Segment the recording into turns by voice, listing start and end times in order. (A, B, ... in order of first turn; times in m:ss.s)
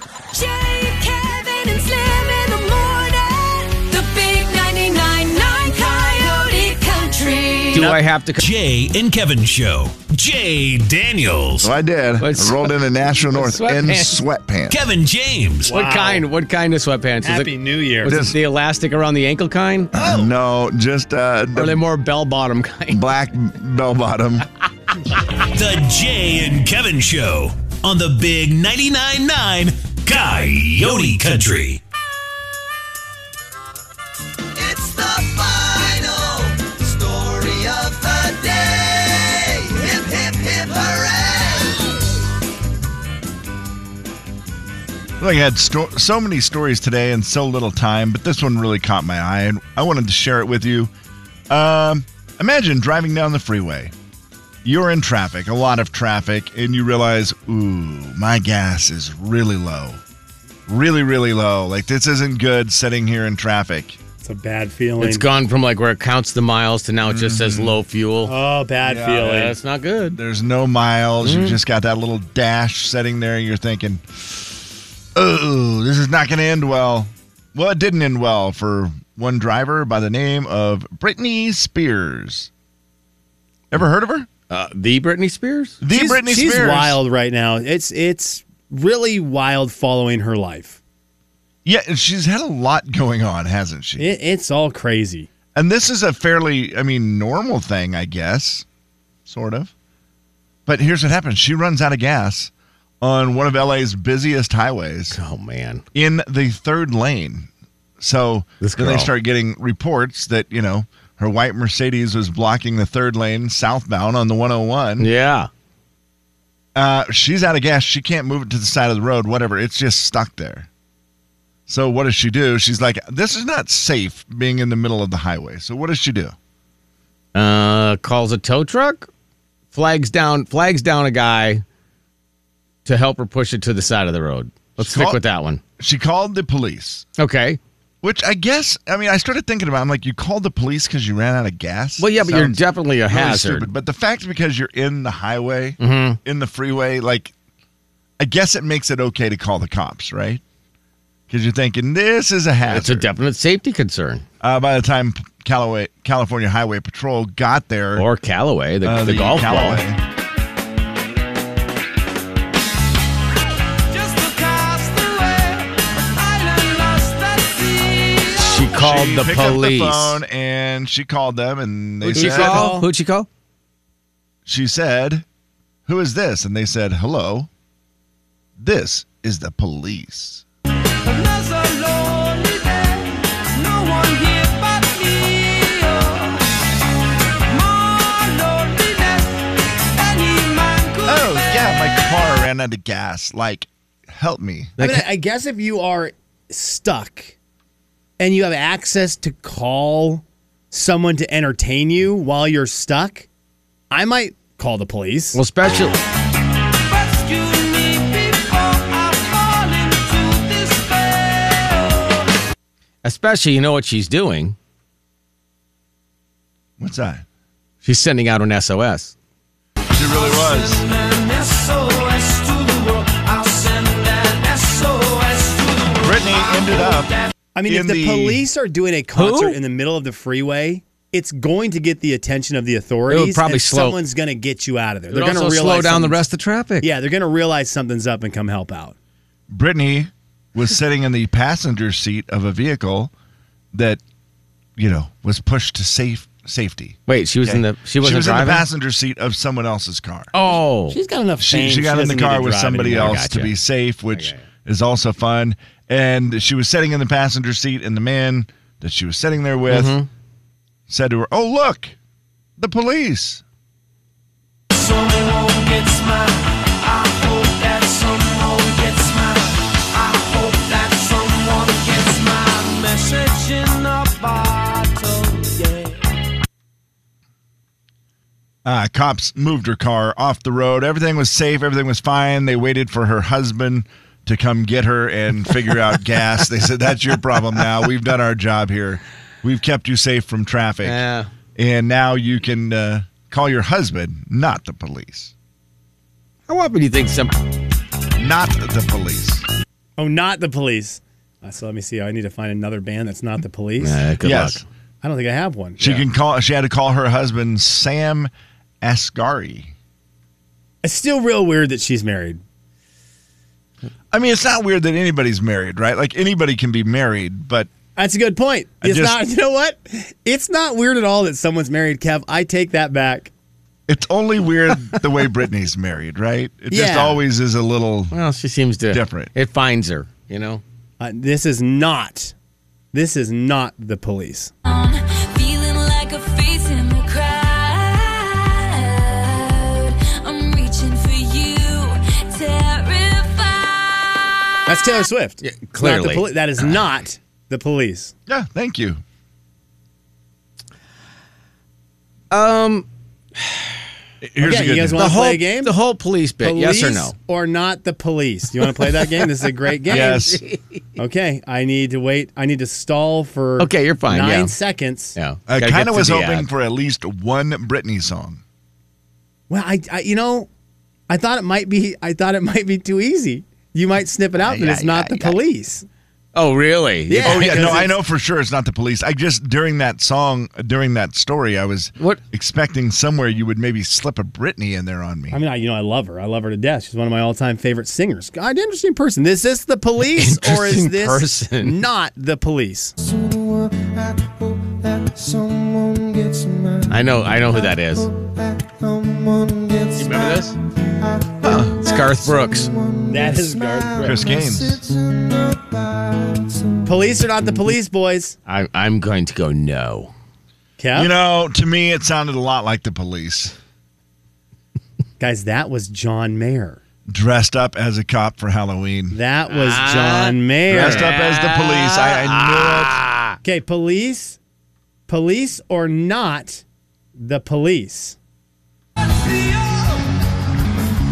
0:00.3-0:07.9 A
0:07.7-0:08.4 B
0:07.8-0:08.0 C
0:08.4-0:11.7 D
0:11.6-0:14.8 E
0:12.2-0:14.2 B
0:14.7-0:15.7 D
0:15.6-0:16.2 C
0:15.7-0:19.9 B
0:17.2-0:18.1 C
0:18.0-0:18.4 E
0:19.9-0:21.8 E
0:21.5-0:23.0 B
0:22.9-0:24.5 E
0:25.5-0:31.8 D
0:34.6-0:41.8 F
0:45.2-0:50.9 E
0:51.5-0:53.9 E
0:54.6-1:00.0 E
1:00.7-1:04.0 E
1:04.2-1:05.2 C
1:05.0-1:08.3 B
1:07.0-1:07.8 E
1:08.2-1:09.5 C
1:08.8-1:09.3 E
1:09.1-1:10.2 B
1:10.1-1:22.5 E
1:11.2-1:11.6 B
1:23.7-1:24.3 E
1:24.5-1:25.8 B
1:25.8-1:27.0 E
1:25.9-1:30.8 C
1:31.6-1:34.1 E
1:34.0-1:35.3 C
1:35.5-1:38.6 E
1:39.2-1:39.7 E
1:40.6-1:45.2 E
1:45.1-1:45.8 B
1:45.9-1:55.1 E
1:48.6-1:49.1 B
1:55.0-1:55.5 B
1:56.7-2:00.7 E
2:01.7-2:06.3 E
2:07.3-2:09.1 B
2:09.7-2:11.6 B
2:12.8-2:15.6 B
2:14.8-2:15.2 E
2:15.8-2:17.0 E
2:17.2-2:17.6 B
2:18.0-2:27.3 E
2:22.0-2:23.7 B
2:25.8-2:26.2 B
2:28.2-2:30.4 E
2:31.3-2:33.1 E
2:32.7-2:34.2 B
2:34.4-2:38.1 E
2:38.0-2:39.8 B
2:38.8-2:40.0 E
2:43.9-2:48.6 F
2:48.4-2:50.2 B
2:48.7-2:52.8 E
2:52.1-2:52.9 C
2:52.1-2:53.3 B
2:54.4-2:55.2 E
2:55.9-2:57.5 E
2:58.6-3:00.4 E
3:01.0-3:06.4 F
3:07.5-3:09.4 F
3:09.9-3:11.4 F
3:11.0-3:14.7 E
3:14.8-3:15.0 B
3:14.8-3:17.3 C
3:18.2-3:23.3 C
3:23.9-3:25.4 C
3:25.3-3:26.0 B
3:26.8-3:32.2 F
3:33.0-3:34.6 B
3:36.8-3:37.2 E
3:37.8-3:39.1 B
3:39.9-3:40.8 E
3:40.1-3:47.2 F
3:46.0-3:47.1 E
3:47.5-3:56.2 C
3:47.6-3:48.4 E
3:49.1-3:49.6 B
3:53.1-3:54.0 B
3:55.1-3:56.9 B
3:56.8-3:58.9 C
3:59.5-4:03.1 E
4:03.7-4:04.0 E
4:04.8-4:10.3 E
4:07.1-4:08.6 B
4:10.3-4:11.0 B
4:10.9-4:13.2 C
4:11.4-4:20.0 E
4:12.9-4:13.5 B
4:14.1-4:14.4 B
4:19.7-4:20.1 B
4:20.9-4:21.9 E
4:22.6-4:23.4 E
4:24.7-4:36.0 F
4:38.6-4:51.0 E
4:50.8-4:51.3 B
4:51.6-4:55.3 E
4:56.5-4:57.3 B
4:58.2-4:59.4 E
5:00.0-5:04.0 C
5:03.8-5:04.6 B
5:04.2-5:04.6 E
5:05.0-5:06.0 C
5:05.8-5:08.3 E
5:08.8-5:09.7 E
5:10.8-5:12.4 C
5:14.1-5:17.7 E
5:18.0-5:23.3 C
5:18.8-5:19.2 E
5:23.9-5:28.1 E
5:26.7-5:27.2 C
5:28.1-5:30.6 B
5:28.9-5:29.3 E
5:31.0-5:32.3 C
5:32.9-5:34.5 C
5:34.6-5:44.3 A
5:44.7-5:48.1 C
5:45.4-5:46.7 B
5:48.3-5:49.0 E
5:52.3-5:52.8 B
5:53.4-5:53.7 B
5:54.2-5:55.1 E
5:54.4-5:55.7 C
5:55.0-5:57.1 B
5:56.4-6:00.3 C
5:58.6-5:59.3 B
5:59.9-6:00.4 E
5:59.9-6:00.6 B
6:01.0-6:05.1 C
6:03.6-6:04.5 B
6:05.2-6:06.5 B
6:05.5-6:08.4 E
6:09.5-6:10.5 C
6:11.1-6:15.8 C
6:14.4-6:15.3 E
6:16.3-6:17.8 B
6:17.1-6:17.9 C
6:17.2-6:25.4 E
6:25.3-6:32.9 C
6:30.1-6:31.8 B
6:35.0-6:36.8 F
6:36.9-6:38.1 B
6:38.9-6:40.4 F
6:40.0-6:40.6 B
6:41.4-6:41.8 E
6:41.5-6:42.7 B
6:43.1-6:44.3 C
6:43.3-6:43.8 F
6:44.0-6:44.8 E
6:46.8-6:48.4 C
6:48.4-6:50.1 B
6:50.8-6:51.1 C
6:50.9-6:53.5 E
6:55.2-6:56.8 C
6:57.1-6:59.2 E
6:59.1-7:01.1 C
6:59.5-7:03.4 B
7:00.7-7:03.0 E
7:03.4-7:04.4 C
7:05.1-7:06.6 C
7:07.2-7:08.2 C
7:09.1-7:10.0 F